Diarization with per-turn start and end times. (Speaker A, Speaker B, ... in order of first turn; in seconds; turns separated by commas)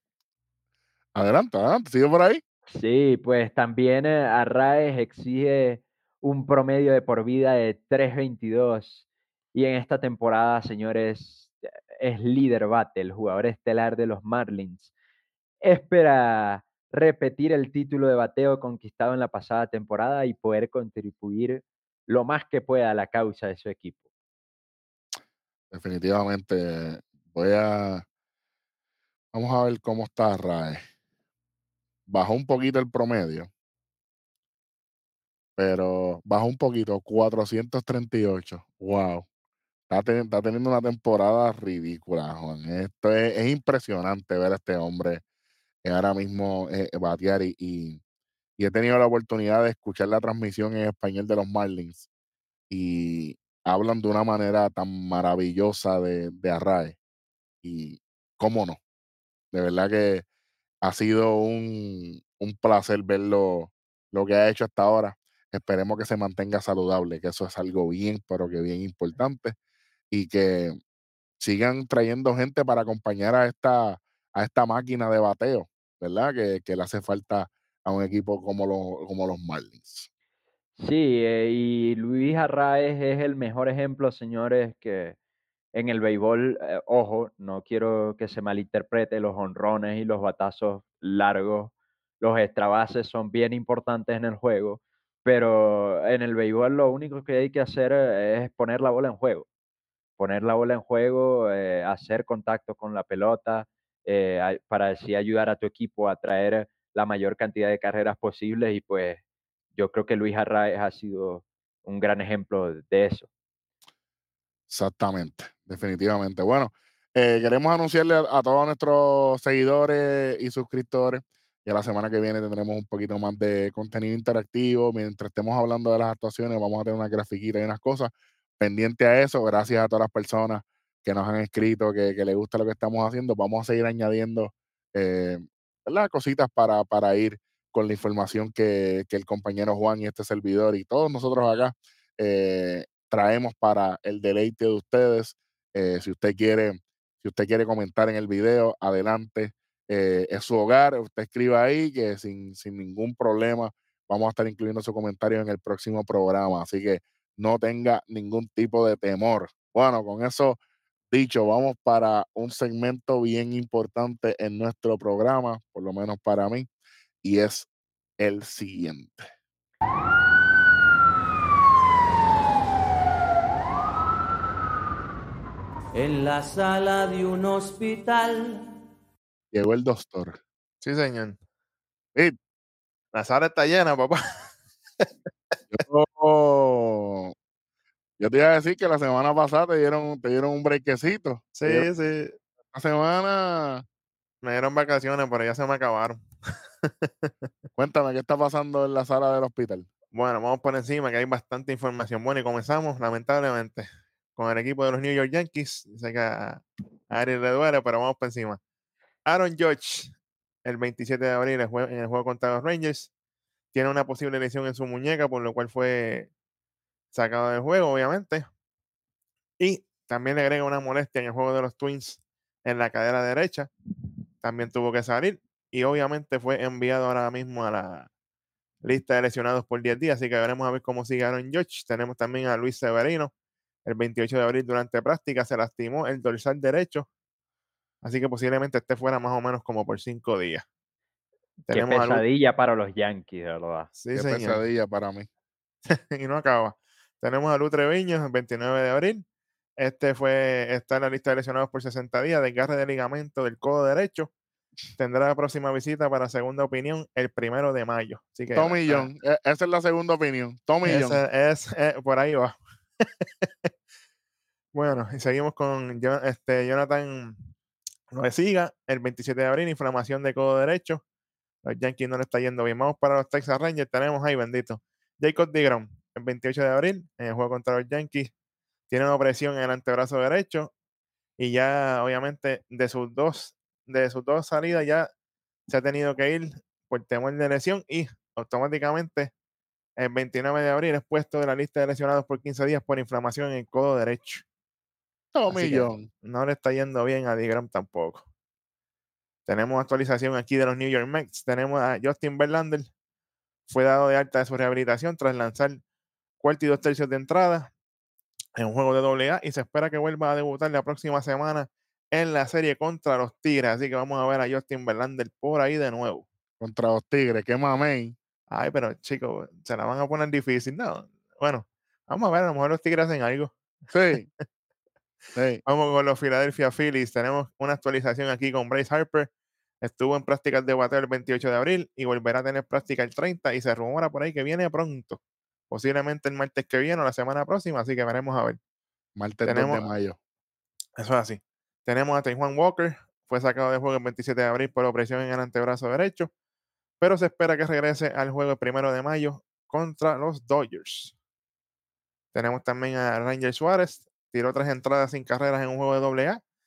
Speaker A: 1.1-2.4, Speaker B: 2.7-14.9, Speaker B: 15.6-24.0, Speaker A: 25.7-28.0, Speaker A: 29.3-30.8, Speaker A: 32.1-33.5, Speaker A: 35.6-39.2, Speaker A: 39.9-45.2, Speaker A: 45.8-48.0, Speaker A: 48.6-52.0, Speaker A: 52.7-57.0, Speaker A: 57.6-58.8, Speaker A: 59.5-60.2, Speaker A: 60.8-69.5, Speaker A: 70.1-70.8, Speaker A: 71.4-80.1, Speaker B: 80.8-85.2, Speaker B: 85.7-99.5, Speaker B: 100.2-109.2, Speaker B: 109.7-113.3, Speaker A: 114.7-160.6, Speaker A: 161.1-166.7, Speaker A: 167.2-167.7, Speaker A: 168.2-169.3, Speaker C: 175.9-178.6, Speaker A: 179.5-180.4, Speaker D: 180.8-181.4, Speaker D: 183.1-184.2, Speaker A: 185.7-187.3, Speaker A: 188.2-191.9, Speaker D: 191.6-192.3, Speaker A: 192.7-193.8, Speaker D: 194.4-196.2, Speaker D: 196.8-197.3, Speaker A: 197.8-199.9, Speaker D: 200.1-208.6, Speaker D: 209.2-210.1, Speaker D: 210.6-213.1, Speaker D: 213.7-216.3, Speaker D: 217.1-218.5, Speaker D: 219.6-223.7, Speaker D: 224.4-228.1, Speaker D: 228.8-233.3, Speaker D: 233.8-237.1, Speaker D: 238.0-240.6, Speaker D: 241.6-242.2, Speaker B: 241.7-243.9, Speaker D: 244.0-244.6, Speaker A: 244.1-245.3, Speaker D: 245.9-249.2, Speaker D: 249.8-254.3, Speaker D: 255.0-259.1, Speaker A: 258.5-261.2, Speaker D: 260.8-263.2, Speaker D: 264.7-267.4, Speaker D: 268.1-271.0, Speaker D: 271.6-278.3, Speaker D: 278.9-280.7, Speaker D: 281.4-285.1, Speaker D: 285.7-289.3, Speaker D: 290.0-294.4, Speaker A: 295.3-296.1, Speaker D: 295.5-298.2, Speaker D: 299.5-302.9, Speaker D: 303.7-305.8, Speaker D: 306.4-307.7, Speaker D: 308.6-316.2, Speaker A: 316.6-318.1, Speaker D: 318.5-323.5, Speaker A: 323.9-324.2, Speaker A: 325.3-325.6, Speaker D: 325.6-329.3, Speaker D: 329.8-338.6, Speaker A: 339.1-340.2, Speaker D: 339.4-339.8, Speaker D: 341.0-346.3, Speaker D: 347.0-351.1, Speaker D: 352.3-356.4